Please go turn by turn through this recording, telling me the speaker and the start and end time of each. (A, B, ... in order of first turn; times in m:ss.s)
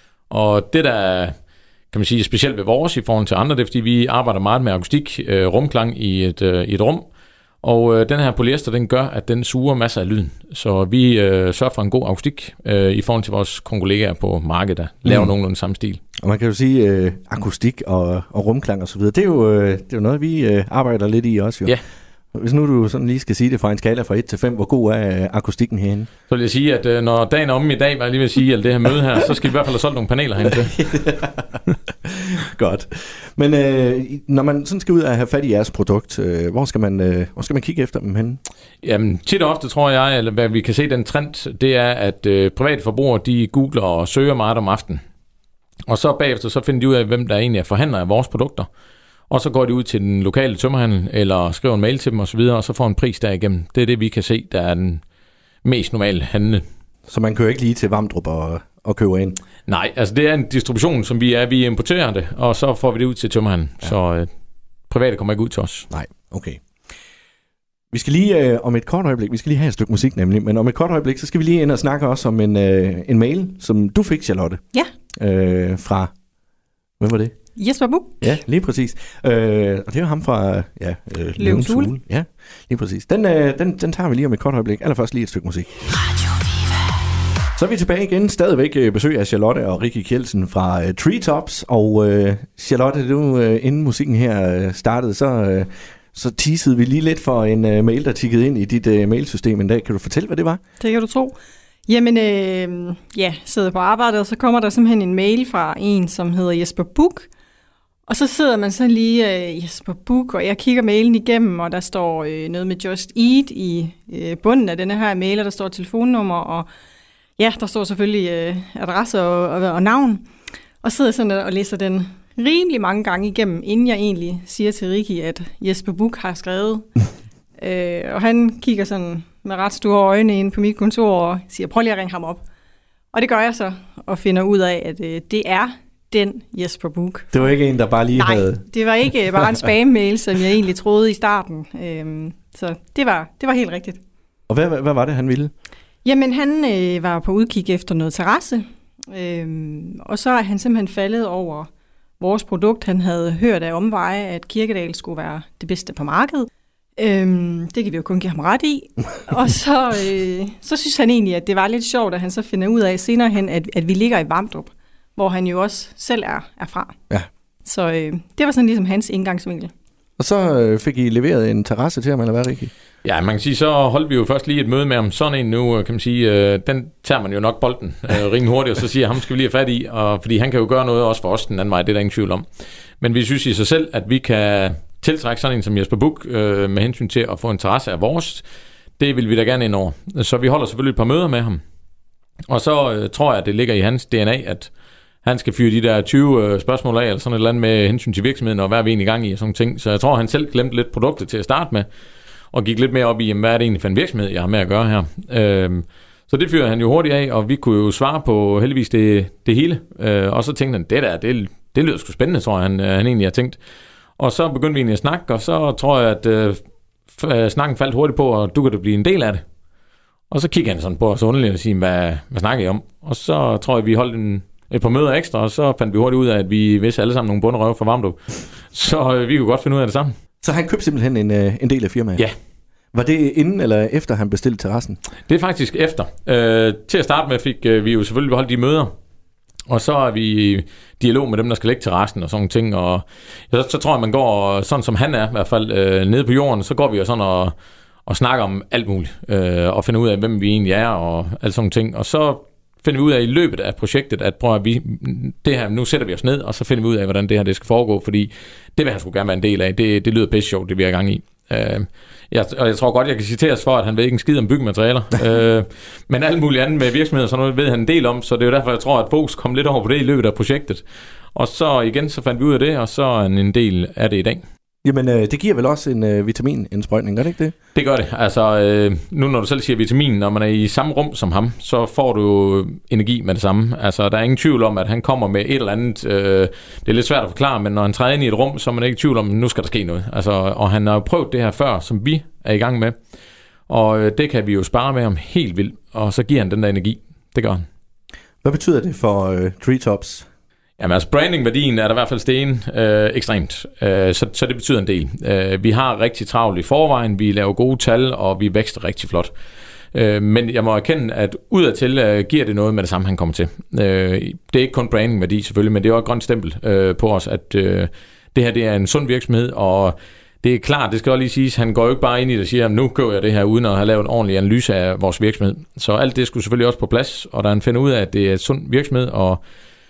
0:00.3-0:01.3 A
0:01.9-0:07.0 A
0:07.6-0:16.0 A
0:16.2-0:21.8 B
0:22.3-0:26.1 B
0:26.3-0:30.8 A
0:30.7-0:38.4 B
0:38.8-0:45.0 A
0:45.9-0:48.7 A
0:49.3-0:55.0 A
0:55.6-0:56.6 A
0:57.1-0:59.4 B
0:59.7-1:04.3 A
1:04.9-1:05.9 A
1:05.9-1:06.6 B
1:07.9-1:14.6 B
1:15.2-1:16.1 B
1:17.0-1:17.3 B
1:17.6-1:18.3 C
1:18.2-1:25.8 B
1:21.4-1:21.9 C
1:27.5-1:40.6 B
1:40.8-1:47.3 C
1:48.1-1:56.7 C
1:57.4-2:00.2 C
2:00.8-2:06.9 C
2:07.6-2:12.4 C
2:13.1-2:17.5 C
2:17.3-2:18.7 B
2:18.1-2:24.0 C
2:24.5-2:25.5 B
2:26.0-2:31.7 C
2:32.2-2:47.0 C
2:47.6-2:49.7 C
2:50.2-2:52.7 B
2:53.0-3:02.4 A
3:03.0-3:08.4 A
3:09.0-3:11.6 A
3:12.5-3:14.7 A
3:15.2-3:21.9 A
3:22.5-3:33.6 A
3:34.2-3:39.4 A
3:40.3-3:50.1 A
3:50.4-3:52.2 B
3:52.9-3:55.0 B
3:55.3-3:58.9 A
3:59.7-4:07.5 A
4:08.0-4:34.4 A
4:34.8-4:37.5 B
4:37.7-4:52.9 A
4:53.7-4:57.6 A
4:58.4-5:00.3 B
5:00.8-5:09.3 A
5:09.9-5:29.4 A